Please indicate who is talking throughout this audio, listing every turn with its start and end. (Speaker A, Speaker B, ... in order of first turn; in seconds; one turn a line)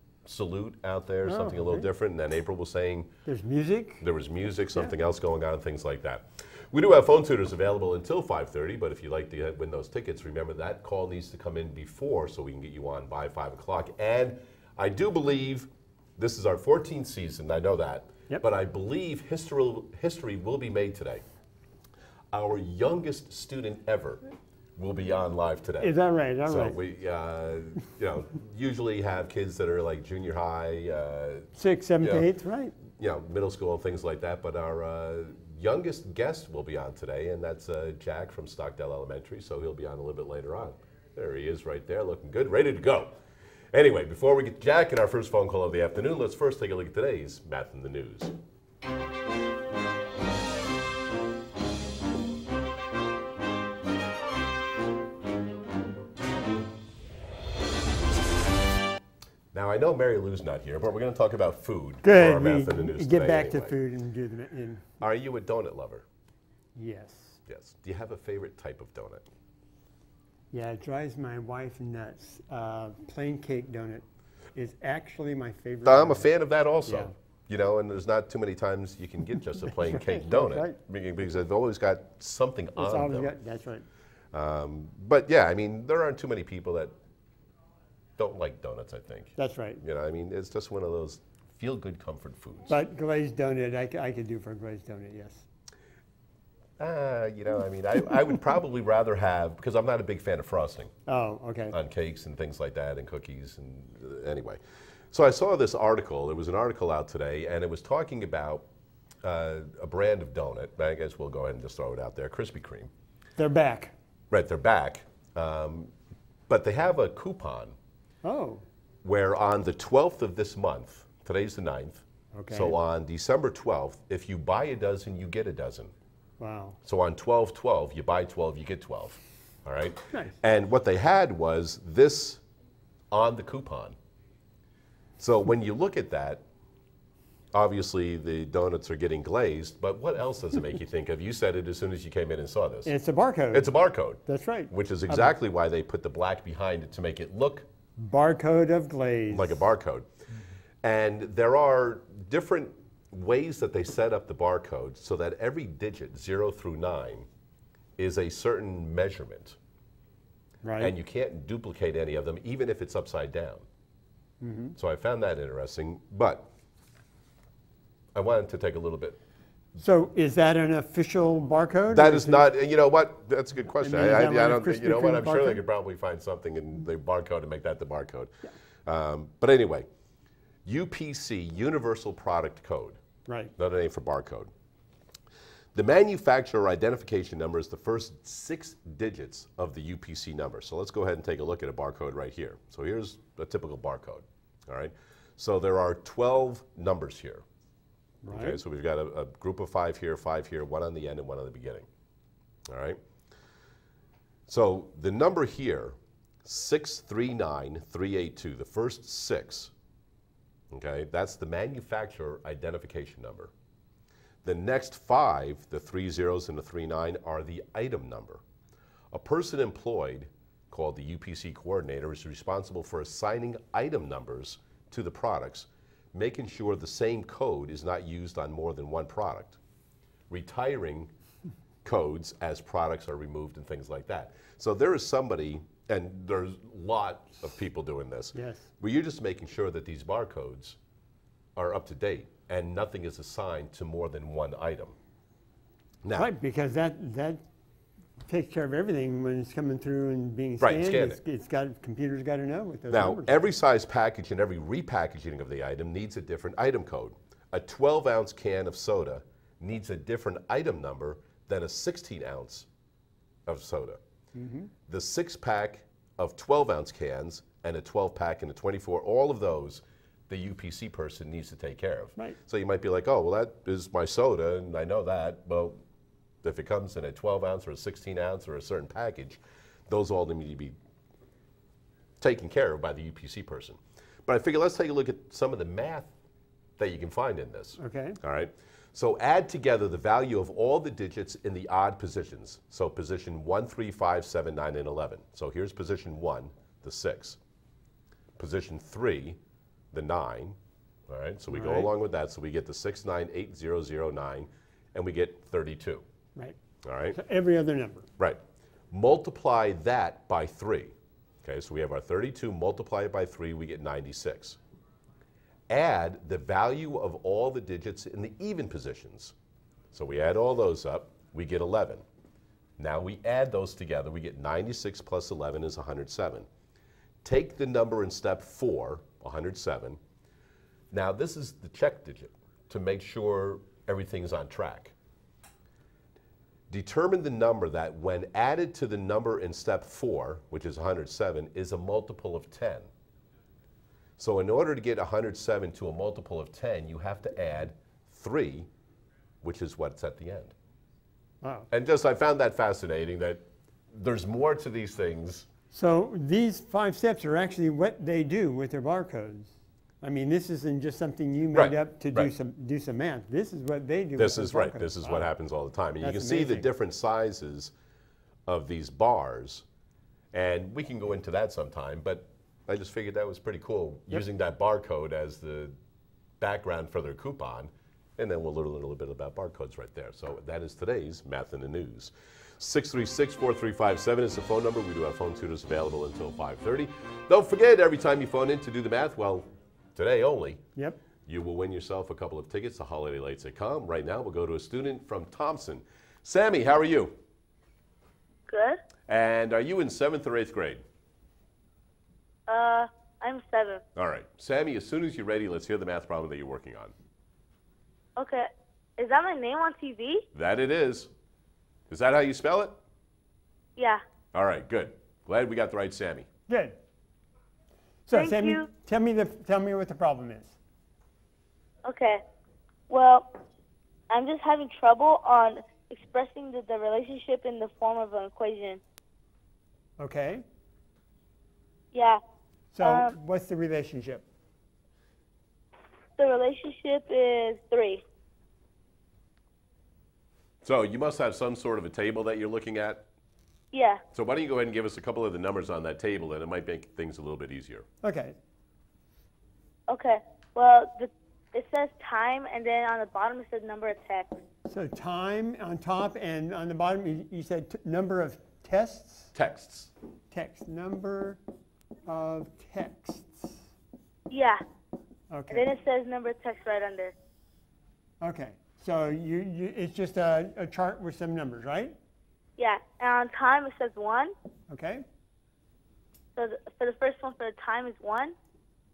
Speaker A: 0.2-3.1
Speaker B: 1.2-1.9
Speaker B: 3.2-4.0
Speaker A: 4.0-21.2
Speaker A: 22.3-24.2
Speaker A: 24.8-25.9
Speaker B: 25.8-26.8
Speaker A: 26.4-32.3
Speaker B: 31.6-32.7
Speaker A: 32.8-43.1
Speaker A: 43.7-48.3
Speaker A: 59.5-63.8
Speaker B: 62.0-64.8
Speaker A: 65.0-66.0
Speaker B: 66.8-67.4
Speaker A: 67.5-69.2
Speaker B: 70.5-76.3
Speaker A: 75.8-83.3
Speaker B: 76.9-77.1
Speaker B: 79.7-80.8
Speaker B: 82.8-83.8
Speaker A: 84.3-86.9
Speaker A: 88.2-92.7
Speaker B: 89.4-89.8
Speaker B: 92.7-95.5
Speaker A: 96.8-100.9
Speaker B: 101.1-101.7
Speaker A: 101.7-104.6
Speaker A: 105.1-108.6
Speaker A: 109.2-112.9
Speaker B: 113.4-113.9
Speaker A: 114.3-115.9
Speaker A: 116.5-117.8
Speaker B: 118.2-118.6
Speaker A: 119.0-125.9
Speaker B: 122.3-122.8
Speaker B: 126.4-126.8
Speaker A: 126.8-132.4
Speaker A: 133.1-133.9
Speaker A: 135.2-136.4
Speaker A: 137.5-142.9
Speaker B: 142.8-143.7
Speaker A: 143.5-147.7
Speaker B: 144.2-145.3
Speaker B: 148.0-149.7
Speaker A: 149.3-150.1
Speaker A: 150.8-157.3
Speaker A: 158.0-159.6
Speaker B: 160.6-160.9
Speaker A: 160.8-163.7
Speaker B: 164.4-164.7
Speaker A: 164.8-166.5
Speaker A: 168.1-169.2
Speaker B: 169.8-172.4
Speaker A: 171.9-179.9
Speaker B: 173.8-175.6
Speaker A: 180.7-183.0
Speaker B: 183.3-183.5
Speaker A: 183.6-184.5
Speaker A: 185.7-197.4
Speaker B: 198.2-198.6
Speaker A: 198.3-201.9
Speaker A: 202.7-203.0
Speaker A: 204.5-209.7
Speaker A: 210.7-213.5
Speaker A: 214.4-218.4
Speaker A: 219.1-229.6
Speaker A: 230.3-231.1
Speaker A: 231.8-240.8
Speaker B: 238.3-238.7
Speaker A: 241.6-244.9
Speaker B: 246.1-247.4
Speaker B: 248.3-253.4
Speaker A: 250.6-251.2
Speaker A: 252.9-262.7
Speaker A: 263.4-264.0
Speaker B: 264.3-264.7
Speaker A: 264.9-275.8
Speaker A: 276.4-280.8
Speaker A: 282.2-286.1
Speaker A: 286.8-297.4
Speaker B: 287.8-288.2
Speaker A: 298.4-299.4
Speaker A: 299.9-300.6
Speaker A: 301.1-306.0
Speaker B: 301.5-301.9
Speaker A: 306.8-307.2
Speaker B: 307.1-308.1
Speaker A: 308.9-314.6
Speaker A: 315.7-319.3
Speaker A: 319.9-322.0
Speaker A: 322.8-326.5
Speaker A: 327.2-330.0
Speaker A: 330.9-334.9
Speaker A: 336.7-342.9
Speaker A: 344.2-348.7
Speaker A: 349.4-350.5
Speaker B: 351.4-351.7
Speaker A: 351.7-355.5
Speaker B: 355.7-365.3
Speaker A: 361.5-362.3
Speaker A: 364.2-367.7
Speaker B: 366.0-366.7
Speaker A: 368.5-369.6
Speaker A: 370.3-375.8
Speaker A: 376.4-390.6
Speaker A: 391.2-397.2
Speaker C: 398.5-398.8
Speaker A: 399.1-400.8
Speaker C: 402.5-403.8
Speaker A: 403.9-406.9
Speaker C: 408.1-410.2
Speaker A: 410.3-411.1
Speaker A: 411.9-412.8
Speaker C: 413.8-414.0
Speaker A: 414.3-416.3
Speaker B: 416.5-416.8
Speaker B: 418.1-420.6
Speaker C: 418.1-418.7
Speaker C: 421.8-422.2
Speaker C: 422.9-423.3
Speaker C: 424.1-428.8
Speaker B: 430.0-430.4
Speaker C: 431.9-432.2
Speaker B: 432.7-434.2
Speaker C: 432.8-433.1
Speaker C: 436.2-438.0
Speaker A: 440.6-443.1
Speaker C: 443.7-444.0
Speaker A: 444.1-447.9
Speaker B: 448.0-448.4
Speaker C: 449.9-454.3
Speaker B: 454.6-459.3
Speaker A: 459.3-459.9
Speaker B: 460.3-461.4
Speaker B: 462.1-463.6
Speaker C: 464.3-464.6
Speaker B: 465.3-465.7
Speaker C: 465.5-467.1
Speaker B: 468.2-471.9
Speaker C: 472.6-474.3
Speaker B: 474.7-475.0
Speaker C: 476.4-478.3